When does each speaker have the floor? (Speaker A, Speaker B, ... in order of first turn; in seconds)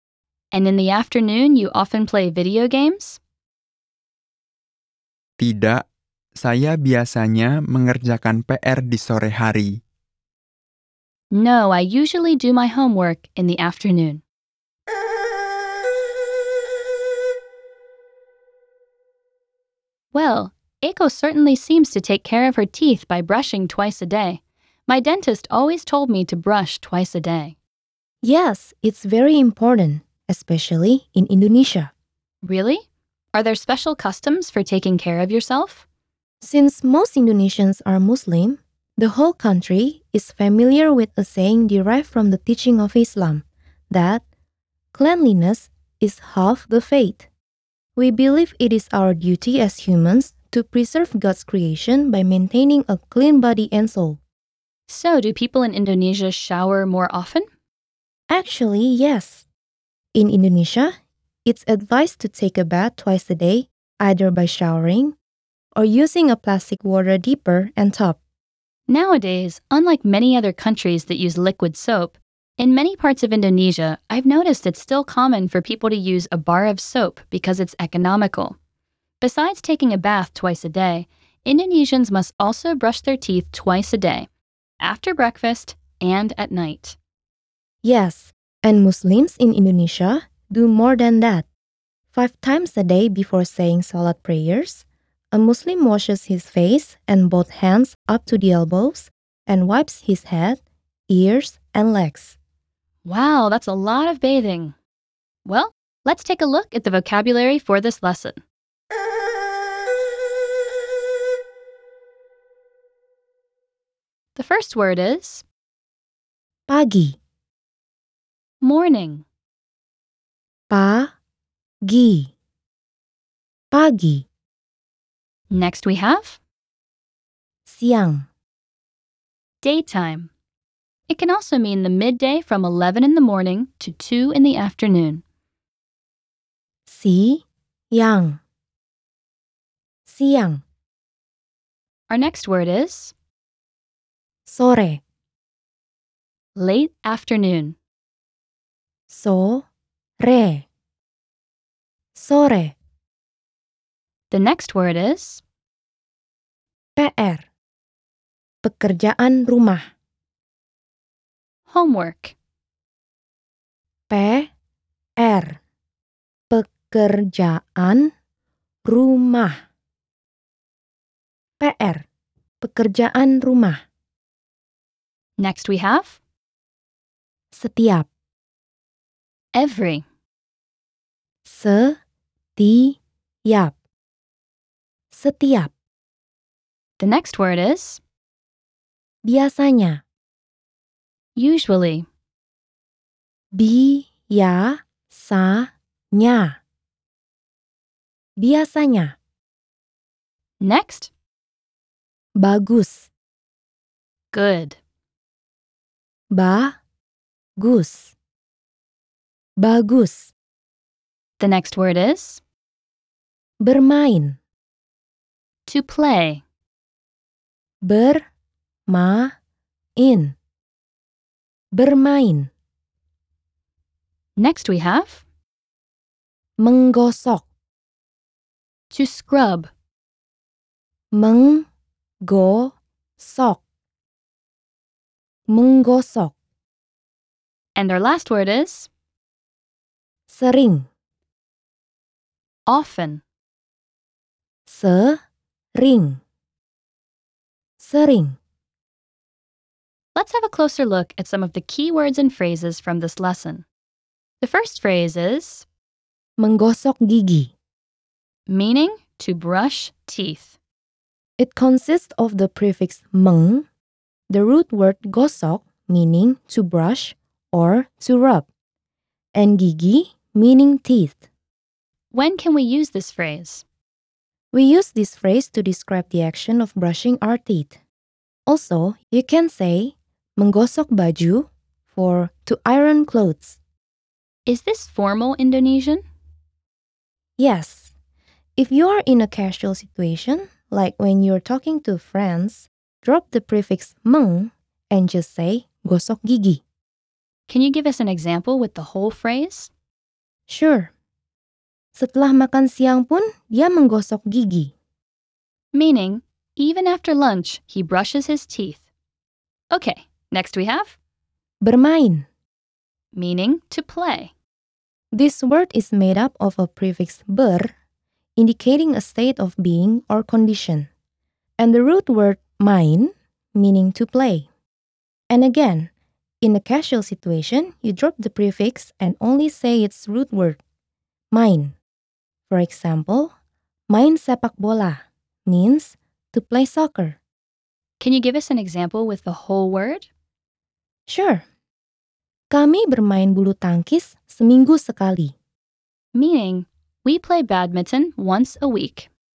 Speaker A: 0.5-3.2, 11.3-14.2, 20.1-27.6, 32.4-35.8, 54.9-57.5, 68.9-78.6, 79.2-84.3, 84.8-87.0, 103.0-104.8, 105.4-108.4, 114.3-115.4, 118.6-119.2, 125.5-126.4, 129.6-130.3, 131.1-135.2, 142.1-143.1, 146.5-147.8, 154.3-155.4, 161.7-162.3, 175.4-176.2, 179.5-180.0, 187.0-188.0, 191.3-192.1, 200.6-201.1, 204.3-204.8, 211.4-212.4, 215.7-216.4, 224.4-225.2, 228.9-229.7, 237.7-238.9, 242.7-243.2, 250.1-253.6, 254.4-255.7, 258.5-260.5, 272.1-273.6, 284.4-286.0, 297.5-299.7, 305.7-308.8, 309.7-310.9, 313.1-314.3, 338.0-340.1, 346.1-349.1
Speaker B: 5.4-5.8, 6.4-9.7
Speaker C: 28.2-31.9, 36.4-44.2, 44.9-47.3, 48.0-54.2, 58.3-59.5, 60.1-60.9, 61.4-65.2, 65.7-68.2, 87.8-91.5, 92.1-102.3, 116.7-117.2, 120.7-121.1, 121.8-122.3, 123.7-124.2, 127.6-128.3, 136.9-138.4, 140.1-140.6, 144.4-145.0, 149.1-149.7, 150.2-150.7, 152.1-152.7, 156.9-157.5, 158.6-159.8, 164.1-164.5, 165.2-165.6, 166.5-168.1, 168.8-169.6, 171.6-172.0, 172.6-173.8, 177.5-178.1, 181.4-182.0, 182.6-183.7, 185.1-185.7, 189.2-190.0, 193.5-196.6, 198.4-199.1, 202.4-203.1, 206.3-206.8, 207.6-208.1, 209.6-210.3, 213.6-214.4, 217.8-218.2, 218.9-219.3, 220.0-220.3, 221.7-222.5, 226.6-227.4, 231.1-231.7, 232.2-233.6, 235.5-236.3, 240.3-240.8, 244.7-245.2, 245.8-246.2, 247.8-248.4, 256.4-257.5, 261.4-263.6, 264.3-268.5, 269.3-271.2, 274.5-277.8, 278.5-283.6, 287.4-287.9, 288.6-296.6, 300.5-300.9, 301.9-304.7, 311.6-312.3, 315.1-317.7, 318.4-320.9, 321.6-324.5, 325.3-325.9, 326.4-330.6, 331.3-331.7, 332.5-333.3, 333.9-337.2, 341.1-341.4, 342.5-345.3